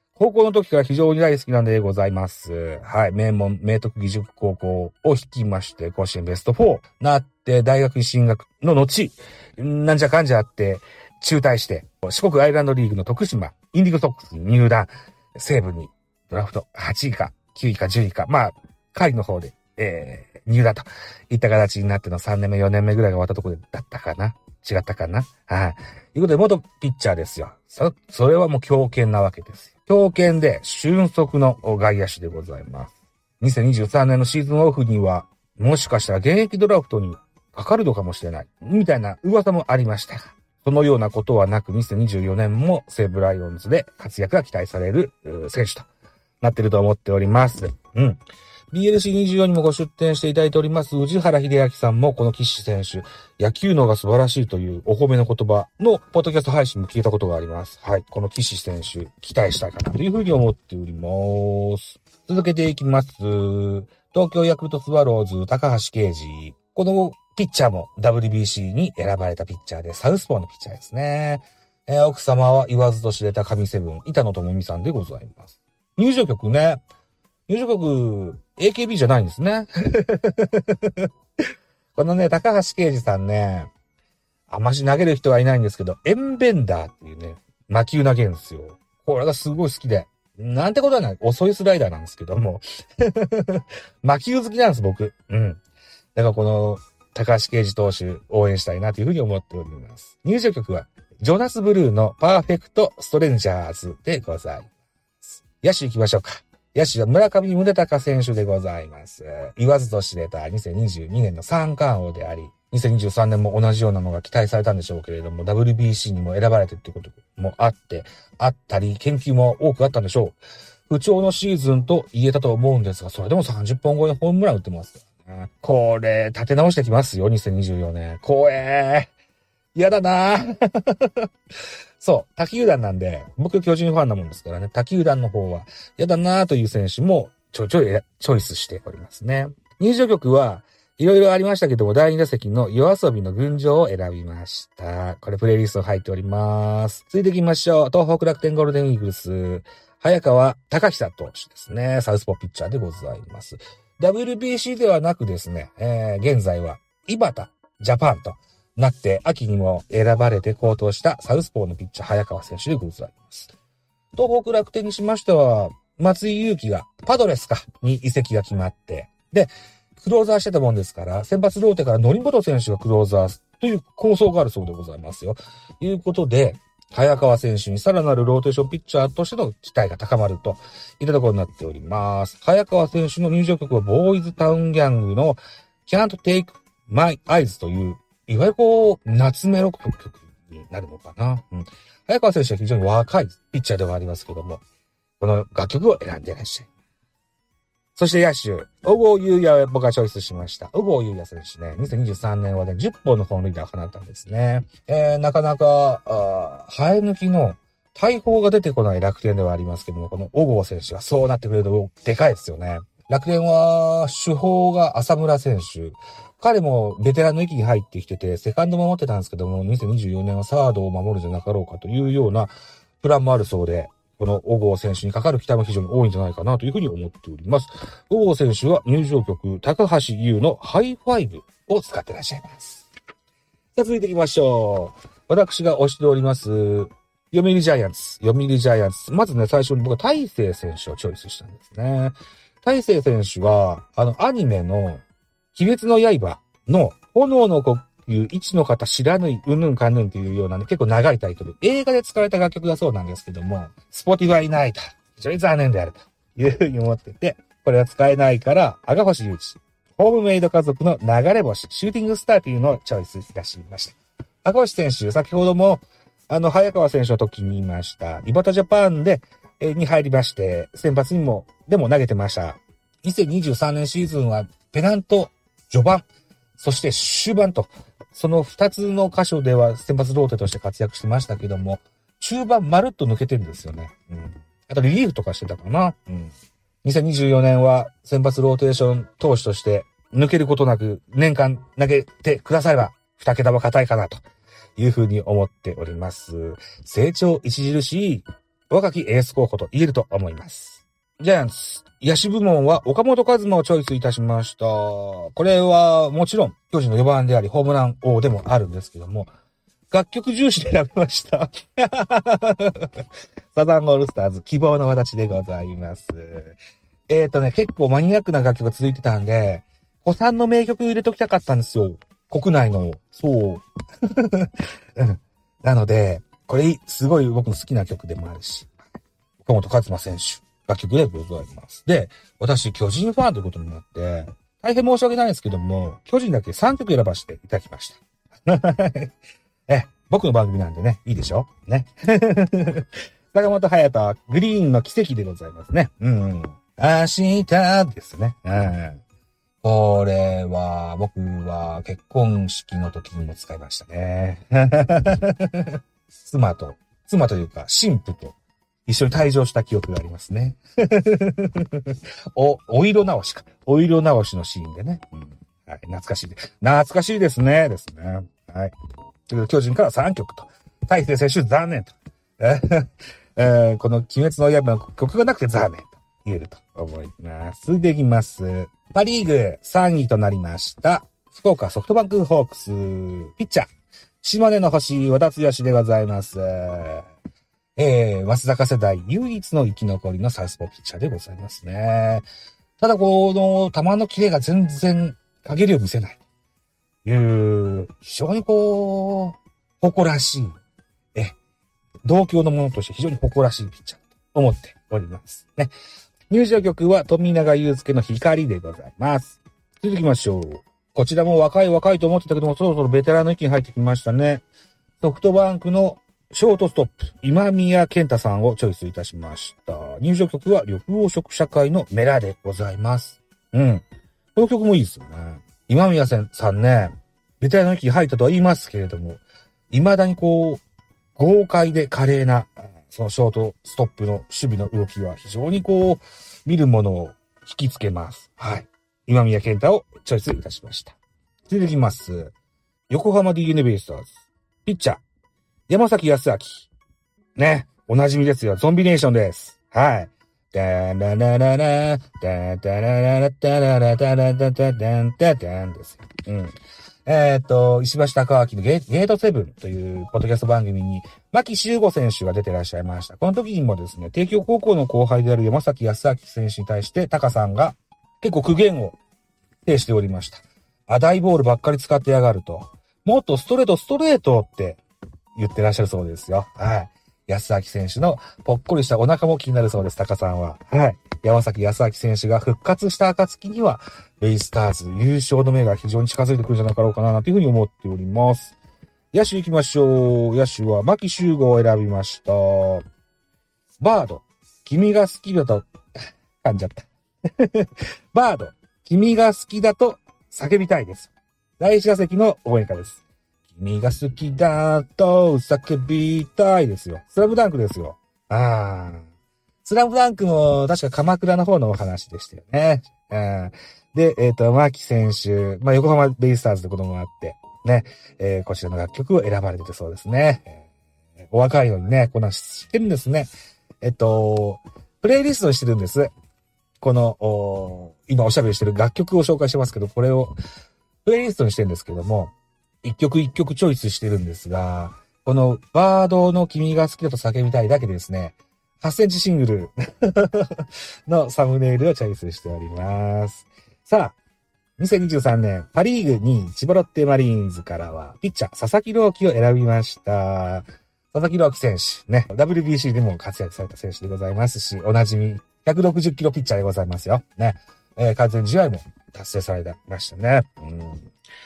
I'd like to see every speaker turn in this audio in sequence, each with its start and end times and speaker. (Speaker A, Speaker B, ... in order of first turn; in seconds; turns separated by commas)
Speaker A: 0.1-45.9, Speaker A: 46.4-48.2, Speaker A: 48.7-76.8, Speaker A: 77.5-81.1, Speaker A: 82.0-83.7, Speaker A: 84.5-95.6, Speaker A: 96.2-104.7, Speaker A: 105.2-120.4, Speaker A: 120.9-129.1, Speaker A: 129.7-131.2, Speaker A: 132.0-163.5, Speaker A: 164.1-194.6, Speaker A: 195.2-196.7, Speaker A: 198.0-232.9, Speaker A: 233.8-245.0, Speaker A: 245.5-276.1, Speaker A: 276.6-294.2, Speaker A: 294.8-309.3, Speaker A: 309.9-316.6, Speaker A: 317.1-328.7, Speaker A: 329.4-339.1, Speaker A: 339.7-349.0, Speaker A: 349.6-368.7, Speaker A: 369.3-383.7, Speaker A: 384.2-387.1, Speaker A: 387.8-392.3, Speaker A: 392.8-396.2, Speaker A: 397.1-400.5, Speaker A: 402.0-405.7, Speaker A: 406.3-414.4, Speaker A: 415.0-430.6, Speaker A: 431.1-441.0, Speaker A: 441.5-442.4, Speaker A: 442.9-445.0, Speaker A: 445.7-446.7, Speaker A: 447.4-456.5, Speaker A: 457.1-469.0, Speaker A: 469.6-474.8, Speaker A: 475.4-488.6, Speaker A: 489.1-492.8, Speaker A: 493.8-495.7, Speaker A: 496.4-509.1, Speaker A: 509.6-520.6, Speaker A: 521.2-523.3, Speaker A: 523.8-526.1, Speaker A: 526.8-530.4, Speaker A: 531.0-544.2, Speaker A: 544.8-561.1